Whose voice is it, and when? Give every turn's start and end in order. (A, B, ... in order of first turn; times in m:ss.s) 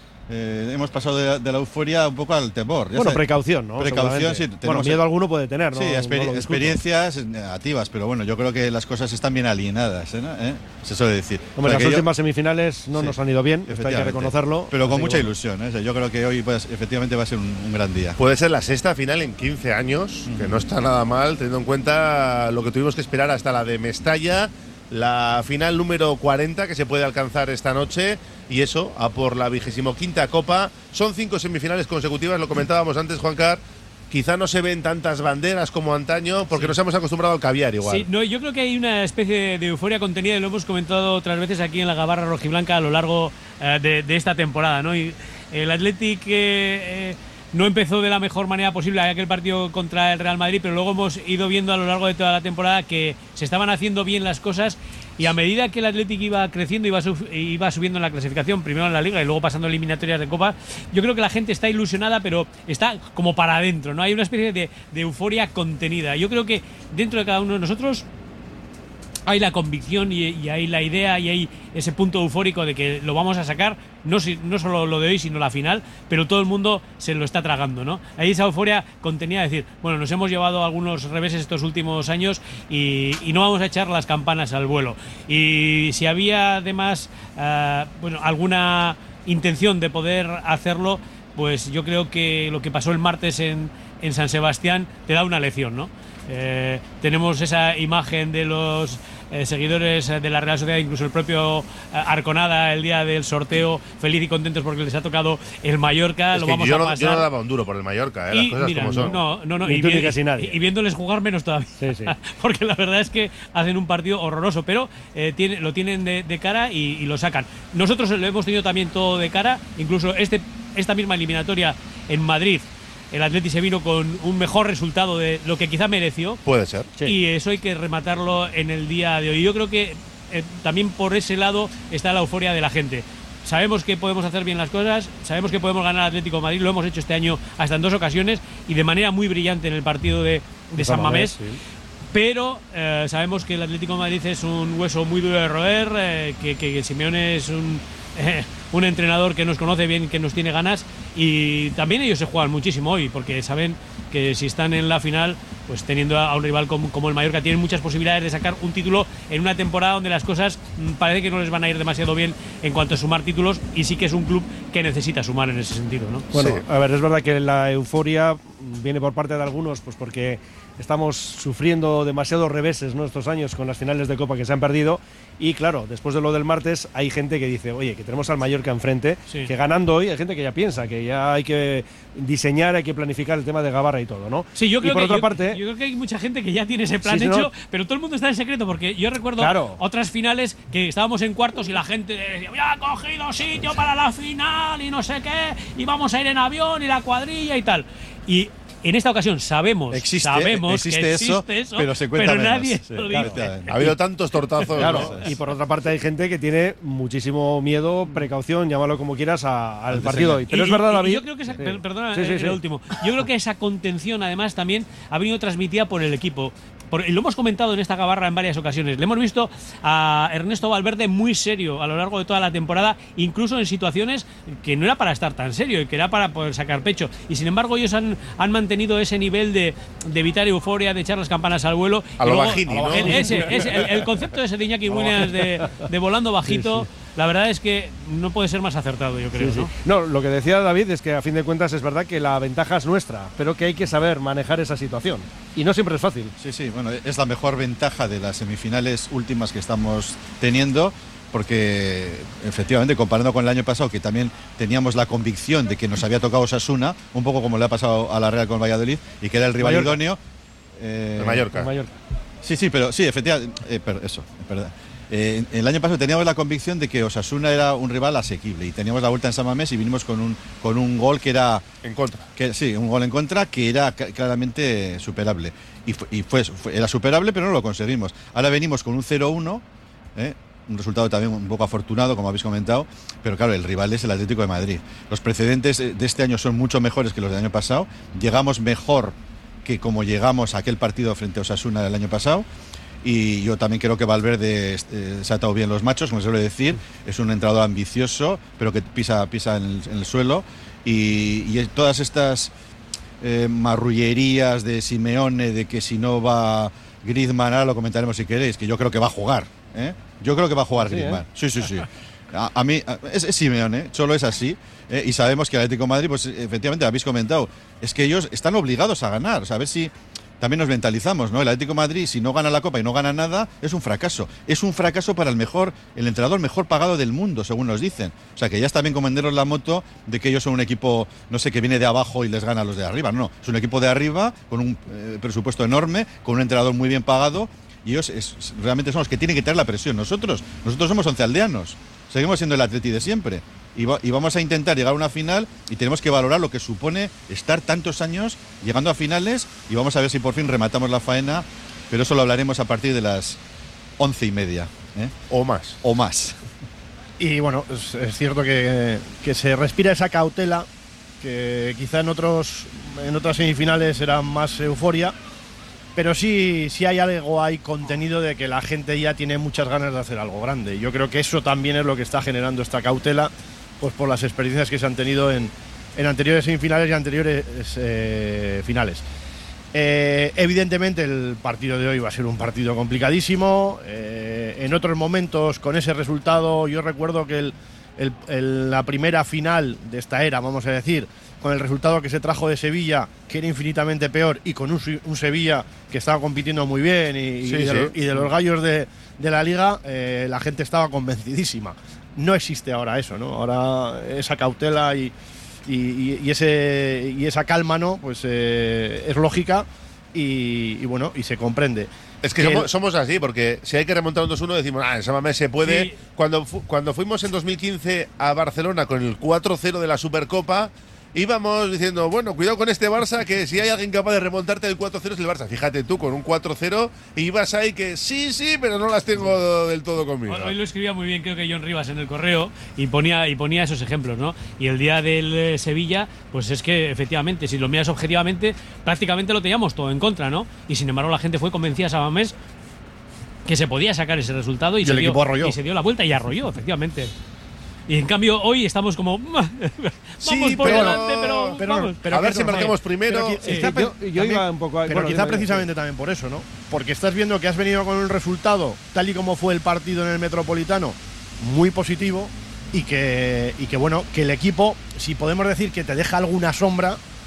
0:00.3-0:03.2 A
0:02.9-0:06.8 B
0:03.8-0:05.0 A
0:05.7-0:12.1 A
0:11.6-0:15.3 B
0:13.7-0:18.2 A
0:18.2-0:38.0 C
0:20.2-0:20.6 A
0:37.8-1:08.0 D
1:09.2-1:47.3 D
1:46.3-1:49.2 C
1:48.3-2:06.4 D
1:49.0-1:50.6 B
1:51.8-1:52.1 B
2:06.4-2:06.9 C
2:07.0-2:21.4 D
2:20.7-2:21.6 B
2:22.1-2:46.3 D
2:46.3-3:05.6 B
2:46.3-2:46.6 C
3:04.6-3:23.9 D
3:07.0-3:07.5 B
3:09.4-3:09.8 B
3:19.9-3:23.9 A
3:23.1-3:23.4 B
3:23.7-3:25.2 C
3:24.7-3:32.6 B
3:24.8-3:25.3 A
3:29.9-3:30.4 A
3:30.5-3:59.7 D
3:52.2-3:53.3 C
3:52.8-3:53.7 B
3:54.9-3:55.8 B
3:56.5-3:56.9 B
3:59.3-4:06.3 B
4:06.4-4:20.2 A
4:19.6-4:20.0 B
4:20.8-4:21.5 A
4:21.2-4:21.7 C
4:21.5-4:21.9 B
4:22.4-4:31.6 A
4:31.8-4:32.2 C
4:32.4-4:39.6 A
4:40.1-4:52.5 A
4:53.0-5:02.5 A
5:03.2-5:53.4 A
5:10.8-5:11.2 B
5:54.0-5:55.1 A
5:55.3-5:55.8 C
5:55.8-5:56.4 A
5:57.2-6:00.7 E
6:01.2-6:05.1 E
6:06.0-6:19.0 E
6:19.7-6:45.1 E
6:37.4-6:37.9 C
6:45.7-6:52.7 E
6:52.2-7:10.5 C
6:55.6-6:56.0 D
7:10.3-7:22.3 D
7:23.4-7:27.1 D
7:24.8-7:25.5 E
7:27.9-7:32.7 D
7:30.2-7:33.6 C
7:30.6-7:31.0 E
7:31.6-7:47.0 E
7:33.1-7:35.7 B